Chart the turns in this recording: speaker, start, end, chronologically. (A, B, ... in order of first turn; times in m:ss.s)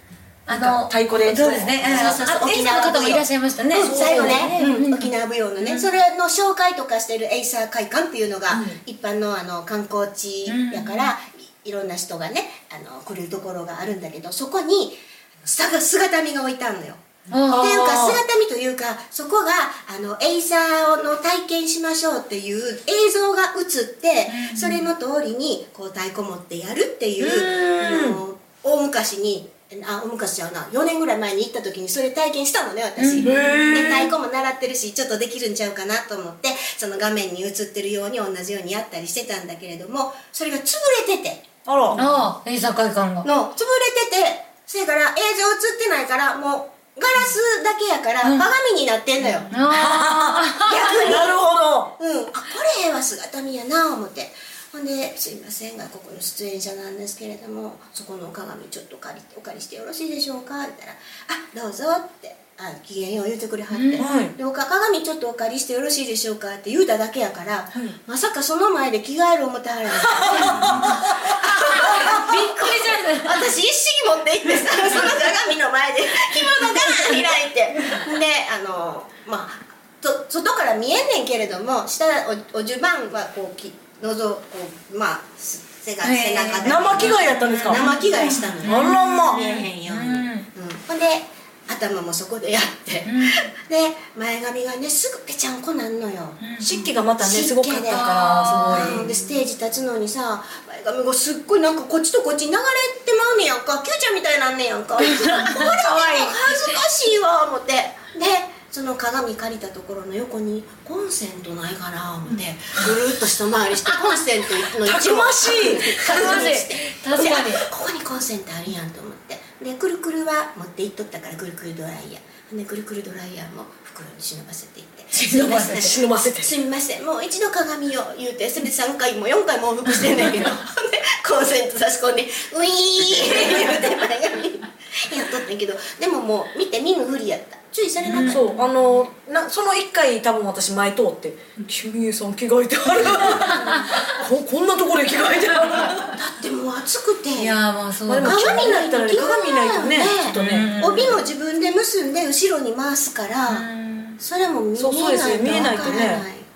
0:00.5-0:05.8 A
0:00.5-0:02.2 B
0:01.8-0:17.0 C
0:03.8-0:04.8 B
0:08.5-0:08.8 B
0:10.5-0:11.1 A
0:17.3-0:17.8 A
0:17.4-0:18.2 B
0:17.5-0:42.2 C
0:24.3-0:24.8 A
0:27.2-0:28.2 B
0:33.0-0:34.1 A
0:33.2-0:34.1 B
0:41.6-0:42.0 B
0:42.0-0:43.3 A
0:43.2-0:49.5 C
0:48.2-0:48.5 A
0:49.5-0:51.2 A
0:49.7-0:51.9 B
0:50.6-0:51.4 C
0:52.0-1:36.5 C
1:03.7-1:04.0 A
1:04.0-1:04.3 B
1:10.2-1:11.1 B
1:11.6-1:13.5 A
1:11.7-1:12.2 B
1:26.0-1:30.5 A
1:26.6-1:27.8 B
1:28.6-1:29.4 B
1:33.0-1:33.4 A
1:36.4-1:36.8 A
1:36.6-1:39.0 B
1:37.2-1:38.1 C
1:37.9-1:39.1 A
1:38.6-2:18.5 C
1:45.0-1:46.8 A
1:54.8-1:56.5 B
1:55.8-1:57.7 A
2:05.1-2:06.0 A
2:05.3-2:06.5 B
2:18.0-2:18.6 A
2:18.2-2:26.2 B
2:23.4-2:24.0 A
2:26.1-2:27.6 C
2:27.4-2:28.7 A
2:28.1-2:30.7 B
2:28.2-2:33.7 C
2:30.3-2:31.2 A
2:33.5-2:34.2 A
2:34.2-2:36.4 C
2:34.8-2:36.2 B